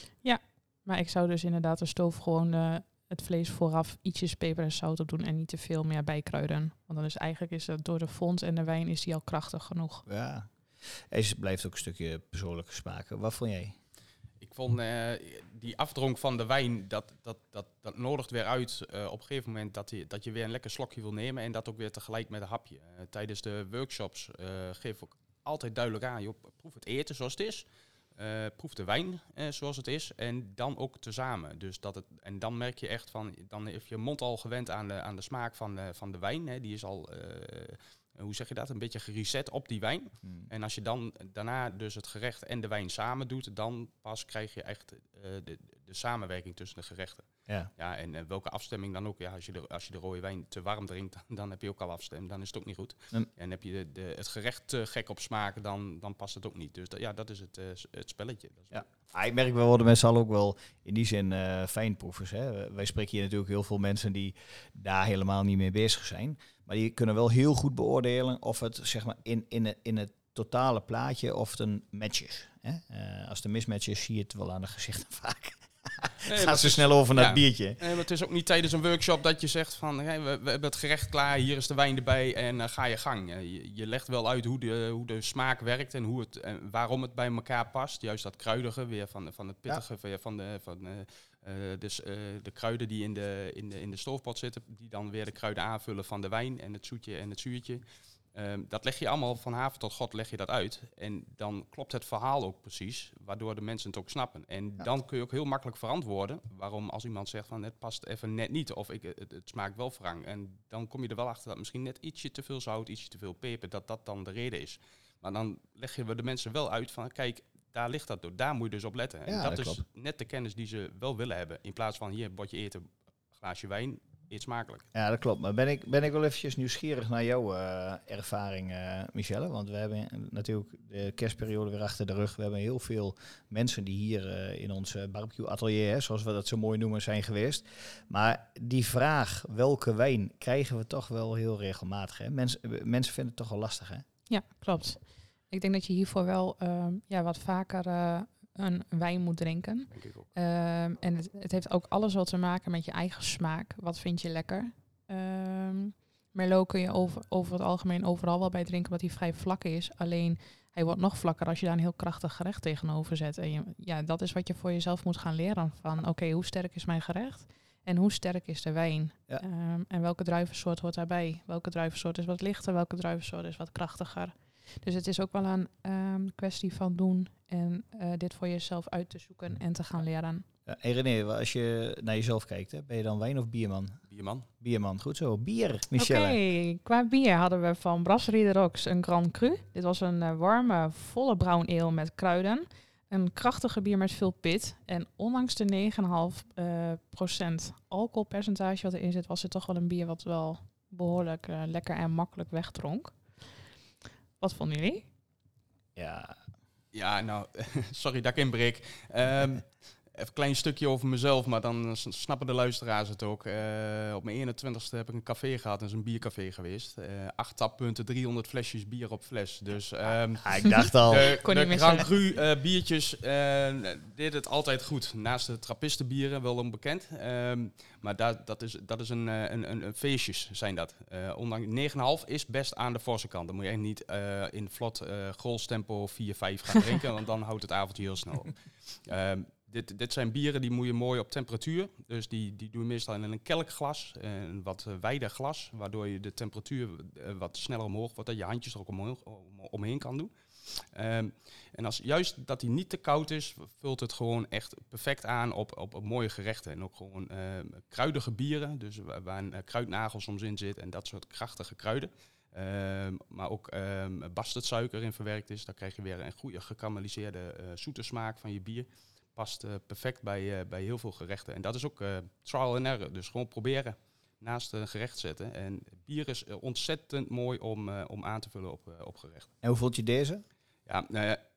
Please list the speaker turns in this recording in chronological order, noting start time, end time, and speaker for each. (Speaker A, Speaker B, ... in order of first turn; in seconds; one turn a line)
Speaker A: 0.2-10.0
Speaker B: 10.1-10.5
Speaker B: 11.1-13.8
Speaker C: 14.4-58.8
Speaker B: 58.7-77.8
Speaker C: 76.2-97.8
Speaker C: 98.3-124.8
Speaker B: 119.2-119.8
Speaker B: 124.9-144.0
Speaker A: 144.3-180.4
Speaker C: 149.9-150.3
Speaker B: 180.7-184.0
Speaker C: 184.1-184.5
Speaker B: 184.6-186.4
Speaker A: 185.9-203.2
Speaker A: 204.4-205.1
Speaker B: 205.9-206.3
Speaker C: 206.9-279.5
Speaker B: 220.4-221.3
Speaker A: 221.2-222.0
Speaker B: 279.6-280.4
Speaker C: 280.9-281.4